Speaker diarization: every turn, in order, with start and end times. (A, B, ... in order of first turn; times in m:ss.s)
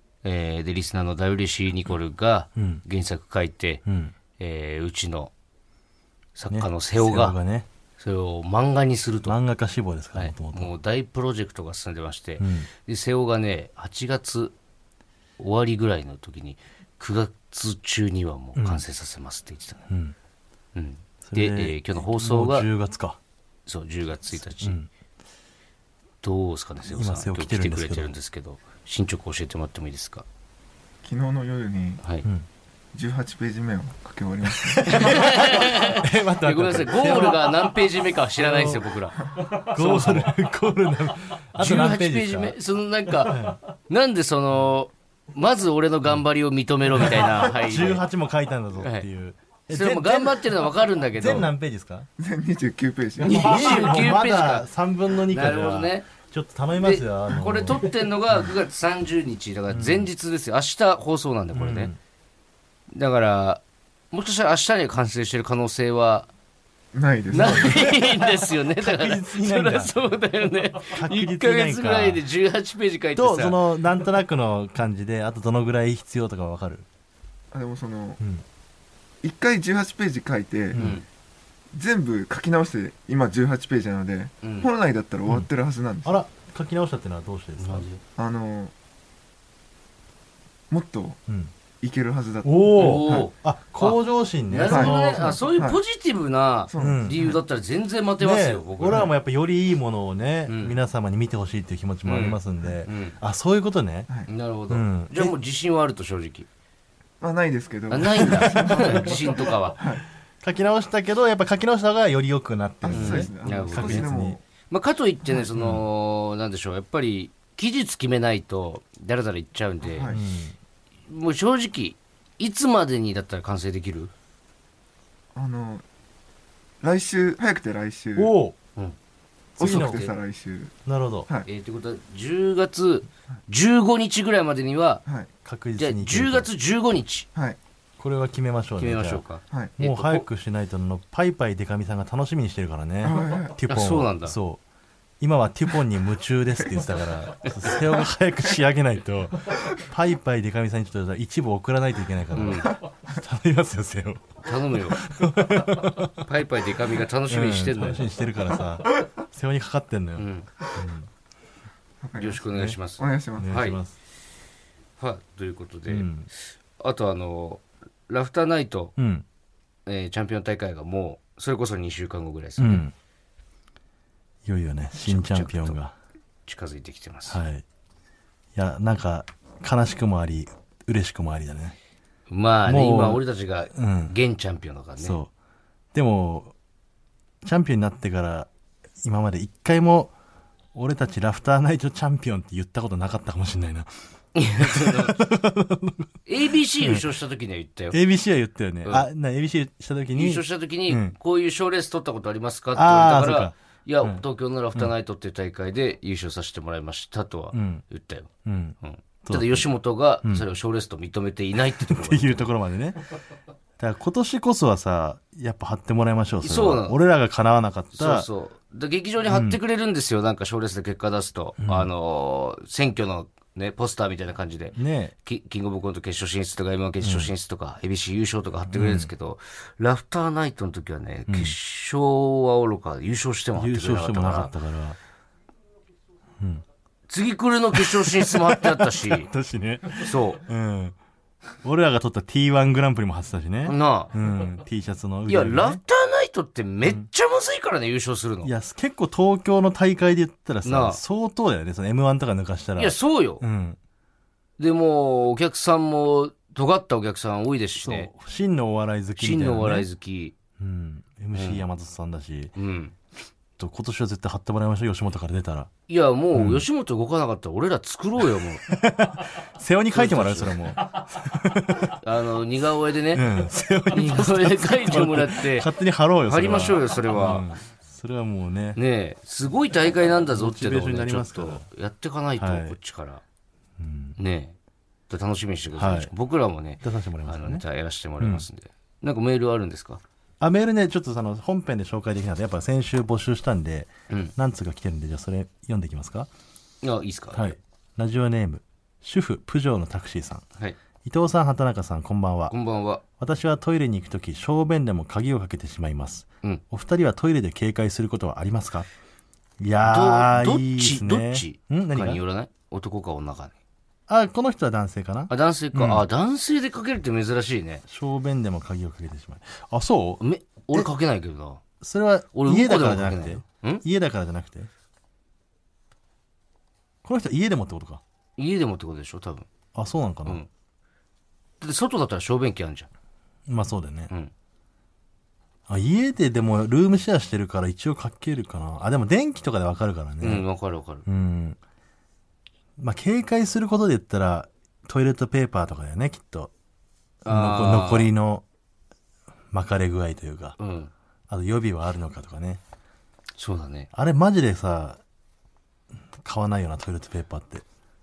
0:00.2-0:03.8 A
0:02.6-0:02.8 B
0:03.9-0:04.1 B
0:04.4-0:05.3 A
0:06.4-0:07.4 A
0:06.5-0:07.7 B
0:08.0-0:09.4 A
0:09.2-0:10.8 B
0:10.1-0:14.5 A
0:12.4-0:12.7 B
0:15.4-0:19.8 A
0:18.5-0:18.8 B
0:19.9-0:20.2 B
0:20.8-0:22.7 A
0:21.2-0:23.2 B
0:23.6-0:24.8 A
0:24.6-0:24.9 B
0:26.2-0:30.2 A
0:26.9-0:28.1 B
0:31.0-0:32.0 C
0:32.0-0:32.3 A
0:32.9-0:35.6 C
0:34.4-0:37.6 B
0:34.9-0:40.3 A
0:38.4-0:42.6 B
0:41.6-0:48.0 A
0:43.2-0:43.6 B
0:46.9-0:52.1 B
0:48.8-0:49.0 A
0:49.7-0:51.5 A
0:52.2-0:54.0 C
0:53.2-0:58.5 B
0:53.2-0:54.7 A
0:55.2-0:56.1 A
0:56.8-1:01.9 A
0:59.7-1:00.1 B
1:01.5-1:02.0 B
1:02.9-1:06.3 A
1:06.9-1:07.8 C
1:07.3-1:13.6 A
1:07.3-1:10.0 B
1:10.8-1:12.2 B
1:13.1-1:16.8 B
1:17.5-1:18.2 C
1:18.2-1:18.4 B
1:19.2-1:20.8 C
1:20.7-1:21.0 B
1:20.8-1:21.0 A
1:21.7-1:26.1 C
1:24.4-1:24.7 A
1:26.0-1:27.9 B
1:27.6-1:28.0 A
1:28.2-1:28.7 C
1:30.7-1:31.2 C
1:31.8-1:33.3 C
1:32.4-1:35.4 B
1:32.7-1:39.1 A
1:34.7-1:35.8 C
1:36.7-1:37.4 C
1:36.8-1:37.2 B
1:38.2-1:44.1 B
1:40.5-1:40.8 A
1:42.0-1:43.2 A
1:44.3-1:46.5 A
1:44.7-1:45.3 B
1:47.2-1:50.0 C
1:47.9-1:49.8 A
1:48.2-1:49.2 B
1:50.4-1:54.4 B
1:52.8-1:54.4 C
1:52.9-1:54.1 A
1:54.7-2:00.1 A
1:55.6-1:55.8 B
1:59.8-2:00.2 C
2:00.1-2:00.6 B
2:01.1-2:04.1 A
2:05.3-2:05.8 C
2:06.8-2:08.3 C
2:08.2-2:08.6 B
2:09.6-2:10.1 B
2:09.6-2:10.8 C
2:09.8-2:10.1 A
2:10.8-2:11.3 B
2:11.4-2:15.0 A
2:15.4-2:16.5 B
2:15.8-2:17.3 A
2:18.0-2:19.2 B
2:18.8-2:20.3 A
2:19.5-2:19.8 C
2:19.8-2:24.6 B
2:23.0-2:23.5 C
2:23.7-2:24.4 A
2:25.2-2:36.3 B
2:32.3-2:32.7 A
2:34.4-2:35.0 A
2:36.2-2:38.1 A
2:37.3-2:41.1 B
2:40.2-2:40.5 A
2:42.0-2:43.5 C
2:42.2-2:43.8 A
2:42.5-2:42.8 B
2:43.4-2:44.0 B
2:45.0-2:46.1 A
2:45.9-2:46.3 B
2:46.8-2:48.9 A
2:49.0-2:49.2 B
2:49.9-2:52.9 A
2:52.6-2:52.9 B
2:54.5-2:56.0 B
2:55.0-2:55.8 A
2:56.5-2:57.4 A
2:57.3-2:57.6 B
2:58.6-3:01.8 B
3:02.3-3:05.2 A
3:02.6-3:03.2 B
3:03.7-3:04.2 B
3:05.0-3:05.3 B
3:05.9-3:06.6 B
3:07.4-3:08.5 B
3:09.0-3:10.1 B
3:10.8-3:13.9 B
3:14.3-3:15.2 A
3:14.6-3:16.2 B
3:16.3-3:18.0 A
3:16.8-3:17.1 B
3:17.9-3:21.2 B
3:20.1-3:28.3 A
3:22.7-3:24.2 B
3:27.5-3:27.8 B
3:28.4-3:29.7 B
3:28.8-3:32.5 A
3:30.2-3:30.5 B
3:31.7-3:33.1 B
3:33.8-3:38.3 B
3:36.4-3:37.0 A
3:37.9-3:54.5 A
3:39.3-3:39.6 B
3:41.6-3:41.9 B
3:44.8-3:45.1 B
3:47.0-3:47.3 B
3:48.7-3:49.1 B
3:51.3-3:51.6 B
3:53.5-3:55.0 B
3:57.1-3:59.3 A
3:57.7-4:01.0 B
4:00.0-4:00.4 A
4:01.6-4:05.8 B
4:03.7-4:04.1 A
4:05.3-4:08.5 A
4:08.4-4:13.8 B
4:10.6-4:11.0 A
4:12.8-4:13.4 A
4:14.6-4:18.1 A
4:17.8-4:19.9 B
4:19.2-4:20.3 A
4:20.6-4:22.5 B
4:21.3-4:21.6 A
4:22.6-4:22.9 A
4:23.6-4:25.7 B
4:25.9-4:28.6 A
4:26.3-4:26.6 B
4:28.6-4:32.0 B
4:29.9-4:30.6 A
4:31.9-4:33.2 A
4:33.1-4:38.8 B
4:33.9-4:35.7 A
4:36.3-4:37.4 A
4:38.8-4:43.2 A
4:40.3-4:41.6 B
4:42.4-4:42.8 B
4:43.8-4:44.2 B
4:44.2-4:44.5 A
4:45.1-4:50.0 A
4:45.8-4:46.1 B
4:46.8-4:47.6 B
4:48.2-4:48.4 B
4:50.4-4:56.3 B
4:56.8-4:57.6 A
4:57.3-5:00.4 B
5:01.0-5:02.5 B
5:02.5-5:03.0 A
5:03.2-5:08.9 B
5:09.6-5:12.2 B
5:09.8-5:13.6 A
5:14.1-5:16.1 B
5:15.3-5:17.8 A
5:17.9-5:20.2 B
5:20.2-5:21.6 A
5:21.8-5:24.7 B
5:22.3-5:23.8 A
5:27.0-5:28.0 B
5:28.4-5:29.5 A
5:29.8-5:30.4 B
5:31.6-5:32.9 A
5:33.5-5:34.1 B
5:35.7-5:40.4 B
5:40.2-5:41.1 A
5:41.1-5:41.6 B
5:42.8-5:46.5 B
5:47.2-5:48.4 B
5:47.2-5:48.1 A
5:49.5-5:50.6 B
5:50.6-5:50.9 A
5:51.3-5:52.6 B
5:53.4-5:53.9 A
5:53.9-5:55.0 B
5:56.1-5:57.6 B